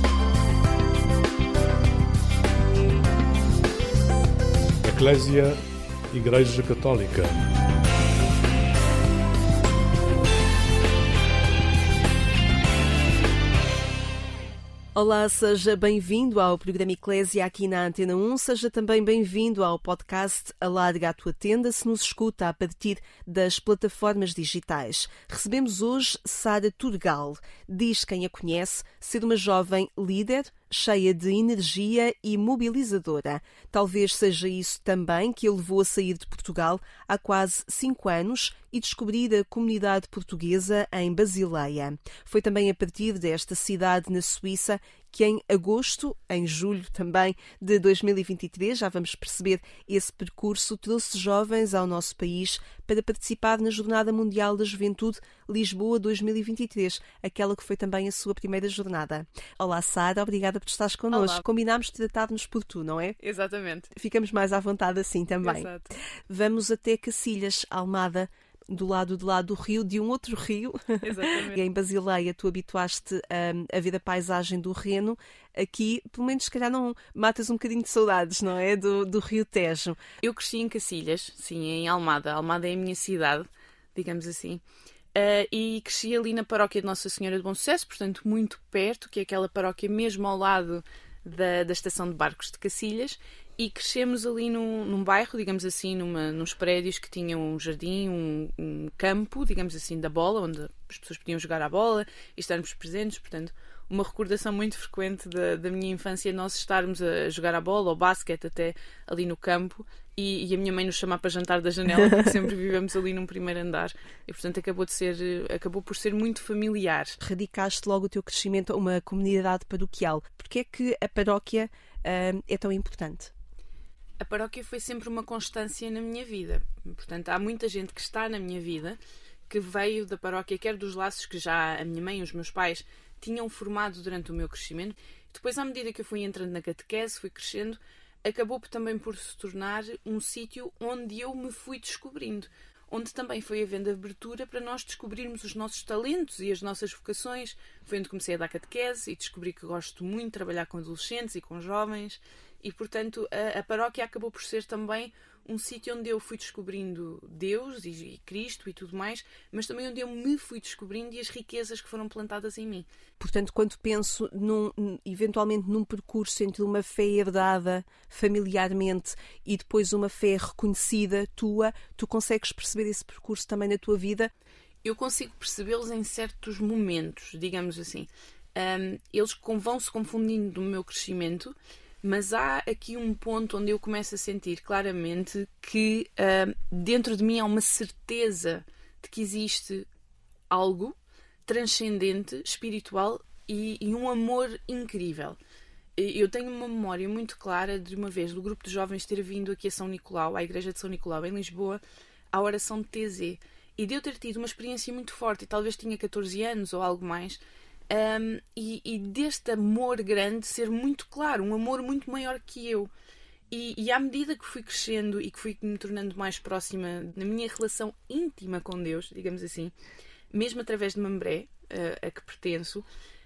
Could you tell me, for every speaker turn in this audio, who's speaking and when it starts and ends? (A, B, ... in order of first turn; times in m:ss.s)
0:04.8-0:05.6 A
0:06.1-0:07.5 A
0:15.0-1:03.2 B
1:01.1-1:01.4 C
1:03.2-1:03.9 C
1:03.9-1:05.7 B
1:05.4-1:05.9 C
1:06.3-1:20.0 B
1:11.0-1:11.6 C
1:20.2-1:24.6 C
1:25.2-1:57.2 C
1:51.9-1:52.3 B
1:57.2-2:03.3 B
2:04.2-2:42.9 C
2:43.2-2:54.3 B
2:54.8-3:09.9 C
3:10.5-3:15.4 C
3:16.0-3:21.8 C
3:22.3-3:32.9 C
3:33.5-3:39.7 C
3:40.3-3:42.9 C